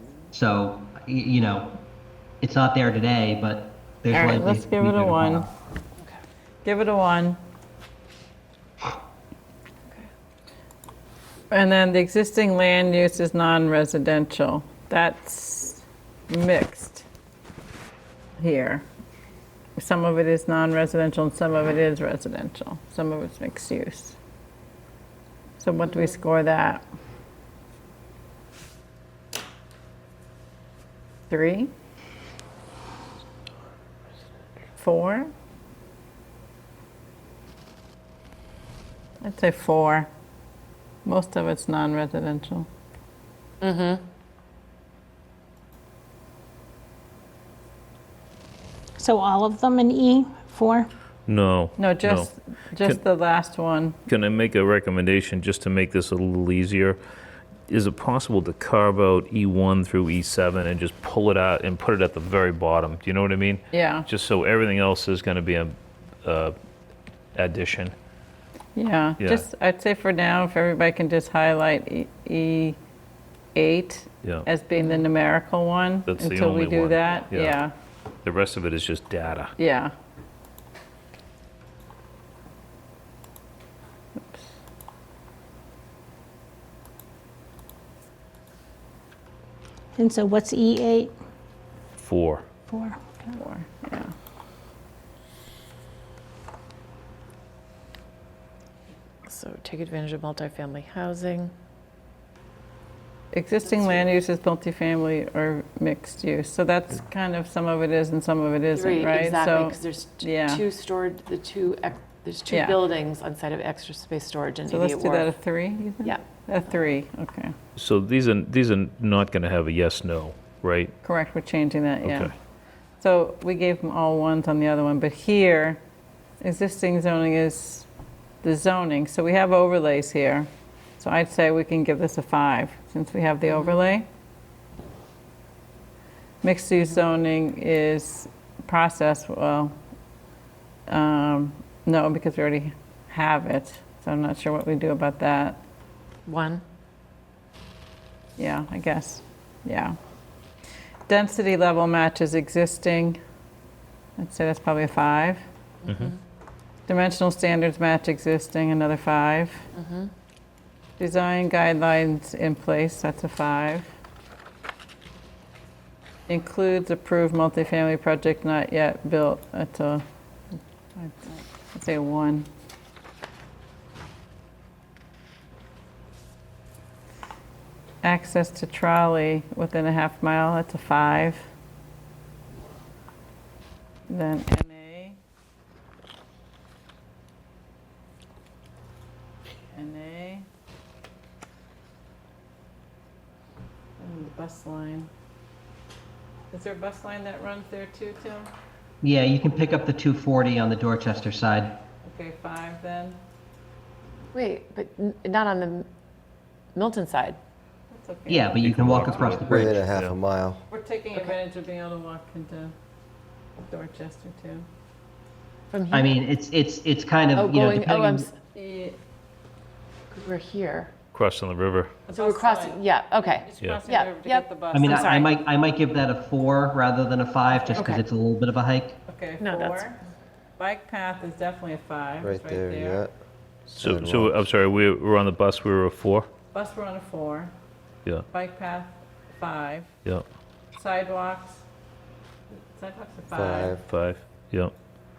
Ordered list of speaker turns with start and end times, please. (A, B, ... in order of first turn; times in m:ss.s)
0:00.3-0:01.8 A
0:02.4-0:05.5 A
0:04.1-0:05.5 B
0:06.6-0:07.4 B
0:11.5-0:17.0 B
0:18.4-0:18.9 B
0:19.8-0:24.2 B
0:25.6-0:26.8 B
0:31.3-0:31.7 B
0:34.8-0:35.3 B
0:39.2-0:40.1 B
0:41.0-0:42.7 B
0:43.6-0:44.0 C
0:49.0-0:50.9 D
0:51.3-0:53.0 E
0:51.8-0:54.0 B
0:54.1-0:57.0 E
0:57.7-1:06.6 E
1:03.7-1:04.1 B
1:07.3-1:08.0 E
1:08.8-1:12.8 B
1:13.6-1:17.7 B
1:16.1-1:17.6 E
1:18.2-1:19.5 E
1:19.6-1:19.9 B
1:30.0-1:31.1 D
1:32.0-1:32.5 E
1:32.7-1:33.0 D
1:33.3-1:34.1 B
1:39.2-1:41.5 C
1:43.3-1:50.6 B
1:48.8-1:55.3 C
1:52.5-1:52.8 B
1:54.7-1:57.5 B
1:57.8-2:00.9 E
2:01.0-2:02.3 B
2:02.0-2:02.3 E
2:03.0-2:05.8 B
2:06.4-2:07.9 B
2:08.4-2:14.1 B
2:13.5-2:13.8 C
2:16.4-2:19.8 B
2:20.9-2:25.6 B
2:26.2-2:26.6 C
2:28.4-2:30.0 B
2:31.1-2:33.2 B
2:34.2-2:35.4 B
2:35.8-2:36.2 C
2:36.9-2:39.6 B
2:39.8-2:40.1 C
2:41.0-2:43.9 B
2:46.3-2:50.0 B
2:50.9-2:52.5 B
2:58.0-3:01.5 B
3:04.1-3:05.2 B
3:09.7-3:10.5 B
3:14.0-3:15.1 B
3:16.5-3:18.5 B
3:19.0-3:21.8 A
3:22.0-3:23.2 B
3:24.3-3:25.9 C
3:26.8-3:27.4 C
3:27.9-3:28.6 B
3:28.3-3:29.8 A
3:28.6-3:30.2 E
3:29.4-3:30.6 F
3:30.7-3:32.7 B
3:33.6-3:34.6 B
3:35.7-3:36.2 C
3:35.9-3:38.3 A
3:37.4-3:38.3 C
3:38.6-3:39.0 B
3:40.1-3:40.9 C
3:41.1-3:41.9 E
3:42.1-3:45.3 B
3:42.1-3:45.3 C
3:44.7-3:49.0 A
3:47.5-3:48.0 B
3:47.7-3:48.0 C
3:49.1-3:50.0 B
3:49.4-3:49.8 C
3:50.6-3:53.1 B
3:52.2-3:53.1 F
3:53.7-3:56.3 E
3:53.8-3:54.4 F
3:56.5-3:57.5 B
3:58.3-3:59.9 B
4:00.8-4:01.6 B
4:02.5-4:03.8 B
4:03.3-4:03.8 F
4:03.9-4:04.7 E